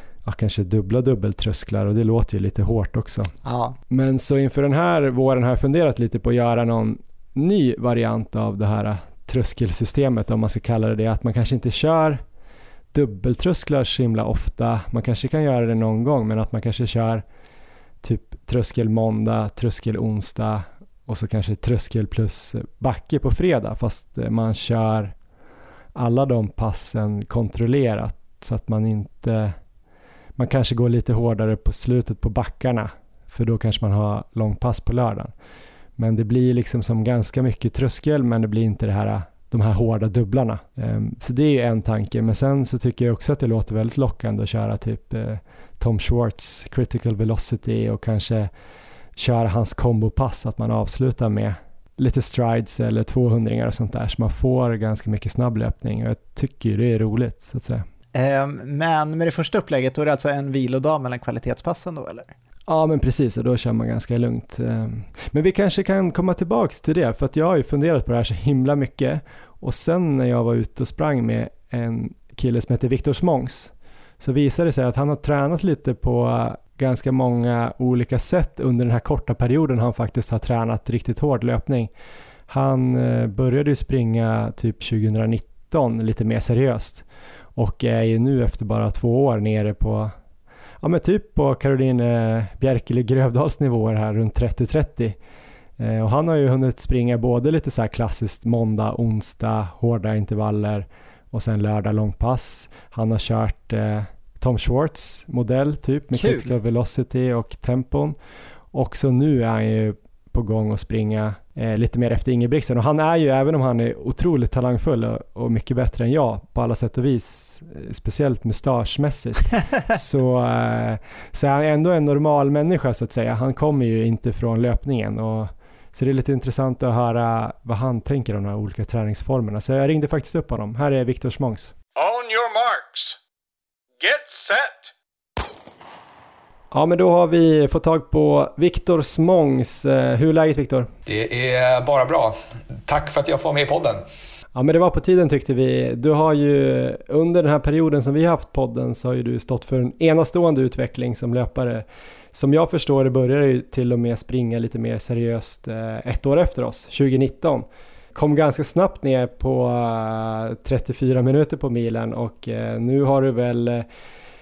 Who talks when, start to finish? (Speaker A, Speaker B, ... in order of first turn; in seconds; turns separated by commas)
Speaker A: 0.2-3.3, Speaker B: 3.4-3.8, Speaker A: 3.9-12.2, Speaker A: 12.9-17.2, Speaker A: 18.0-25.1, Speaker A: 25.9-29.6, Speaker A: 30.4-35.3, Speaker A: 36.0-48.5, Speaker A: 49.1-57.8, Speaker B: 58.1-62.3, Speaker A: 62.7-81.9, Speaker A: 82.5-87.0, Speaker A: 87.5-90.1, Speaker A: 90.8-95.2, Speaker A: 95.8-108.2, Speaker B: 106.1-106.5, Speaker A: 108.7-131.7, Speaker C: 131.9-133.2, Speaker C: 134.0-134.9, Speaker A: 136.7-140.9, Speaker D: 141.1-142.3, Speaker D: 142.8-144.0, Speaker A: 144.5-163.8